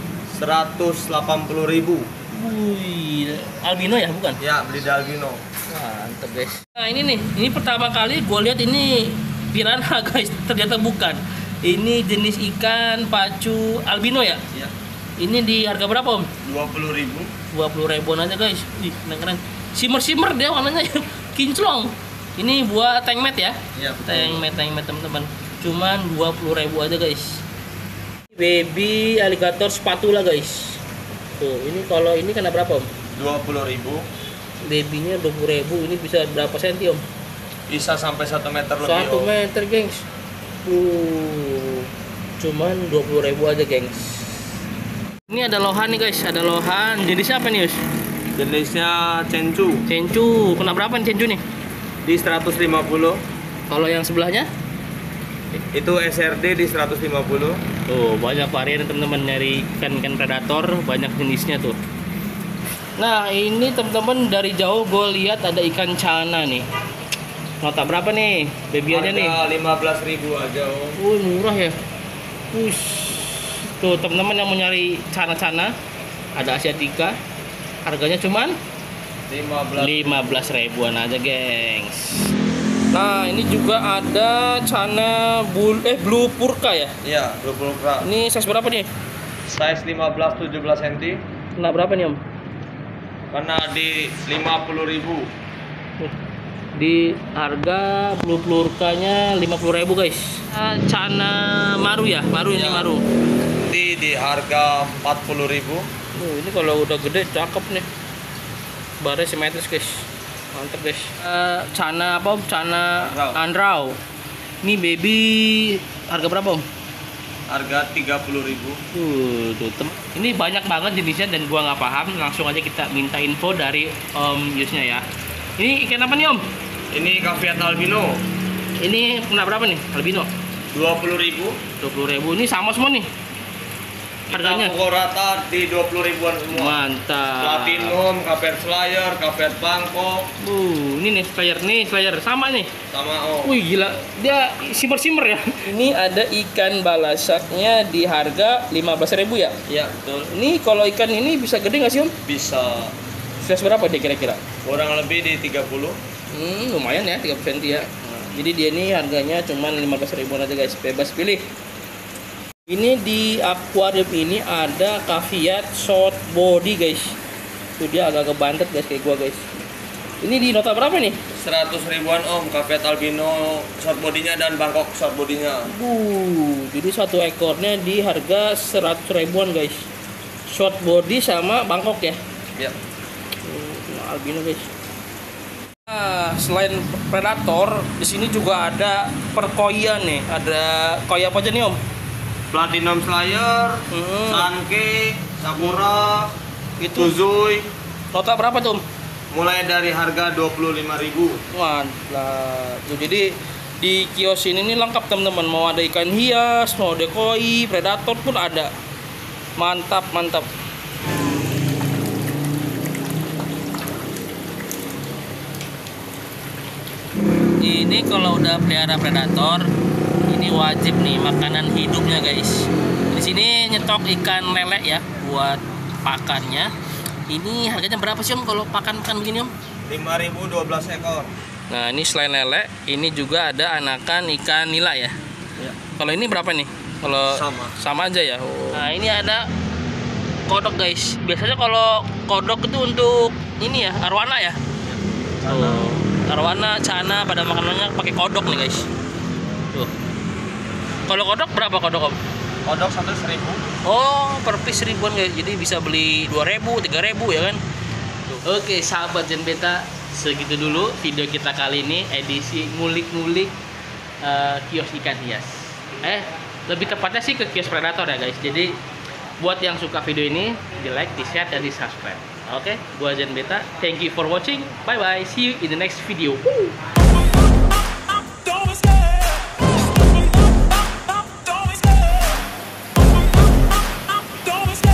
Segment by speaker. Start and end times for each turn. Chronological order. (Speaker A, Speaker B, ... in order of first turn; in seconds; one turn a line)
Speaker A: 0.3-2.1
Speaker B: 2.3-4.4
Speaker A: 4.4-5.4
Speaker B: 5.7-14.4
Speaker B: 15.2-16.3
Speaker A: 16.4-17.3
Speaker B: 17.5-27.4
Speaker A: 23.8-24.4
Speaker B: 28.3-30.8
Speaker B: 31.4-32.9
Speaker A: 33.2-34.0
Speaker B: 34.6-37.0
Speaker A: 37.7-39.3
Speaker B: 38.8-40.0
Speaker B: 40.6-41.9
Speaker B: 42.4-44.5
Speaker B: 45.3-47.8
Speaker A: 48.4-49.9
Speaker B: 49.9-51.4
Speaker A: 52.0-53.2
Speaker B: 53.7-54.5
Speaker A: 55.7-57.6
Speaker B: 57.9-61.8
Speaker B: 63.0-66.6
Speaker B: 67.6-69.4
Speaker A: 68.9-71.0
Speaker B: 71.0-71.8
Speaker B: 72.5-75.7
Speaker B: 76.4-77.2
Speaker B: 77.8-78.6
Speaker A: 79.3-80.6
Speaker B: 79.8-82.3
Speaker B: 82.9-86.9
Speaker A: 87.0-88.1
Speaker B: 88.0-88.9
Speaker A: 89.5-91.2
Speaker B: 91.6-92.2
Speaker A: 93.3-95.2
Speaker B: 96.8-103.0
Speaker A: 102.5-102.9
Speaker A: 103.6-105.8
Speaker B: 106.2-107.8
Speaker B: 109.0-114.0
Speaker A: 113.0-113.4
Speaker B: 114.6-116.7
Speaker A: 117.5-118.8
Speaker B: 118.9-125.0
Speaker B: 125.6-126.4
Speaker A: 126.9-128.2
Speaker B: 128.8-130.3
Speaker A: 130.7-131.6
Speaker B: 131.8-133.1
Speaker A: 134.3-136.8
Speaker B: 134.3-134.8
Speaker B: 136.5-137.9
Speaker A: 137.4-140.3
Speaker B: 140.4-142.7
Speaker A: 142.9-143.5
Speaker B: 143.4-149.6
Speaker A: 149.7-150.3
Speaker B: 150.3-152.1
Speaker A: 152.2-152.9
Speaker B: 153.4-154.4
Speaker A: 154.7-156.0
Speaker B: 156.3-161.5
Speaker B: 162.7-167.2
Speaker B: 167.8-169.4
Speaker B: 170.2-171.2
Speaker A: 171.3-175.7
Speaker B: 175.7-179.8
Speaker B: 180.5-182.2
Speaker B: 183.4-184.7
Speaker B: 185.9-191.8
Speaker A: 192.5-196.3
Speaker B: 193.9-194.5
Speaker B: 196.8-197.1
Speaker A: 196.9-197.7
Speaker B: 198.1-198.8
Speaker A: 199.3-201.4
Speaker B: 201.5-208.7
Speaker B: 209.6-210.5
Speaker B: 217.6-219.7
Speaker B: 220.3-226.7
Speaker B: 227.3-229.5
Speaker A: 229.9-231.3
Speaker B: 231.7-235.2
Speaker B: 236.0-239.5
Speaker A: 237.1-237.8
Speaker B: 240.5-244.6
Speaker A: 244.8-245.9
Speaker B: 245.5-248.9
Speaker B: 251.1-252.2
Speaker A: 252.7-253.6
Speaker B: 253.8-257.6
Speaker B: 258.4-263.5
Speaker B: 264.2-268.8
Speaker B: 269.4-276.7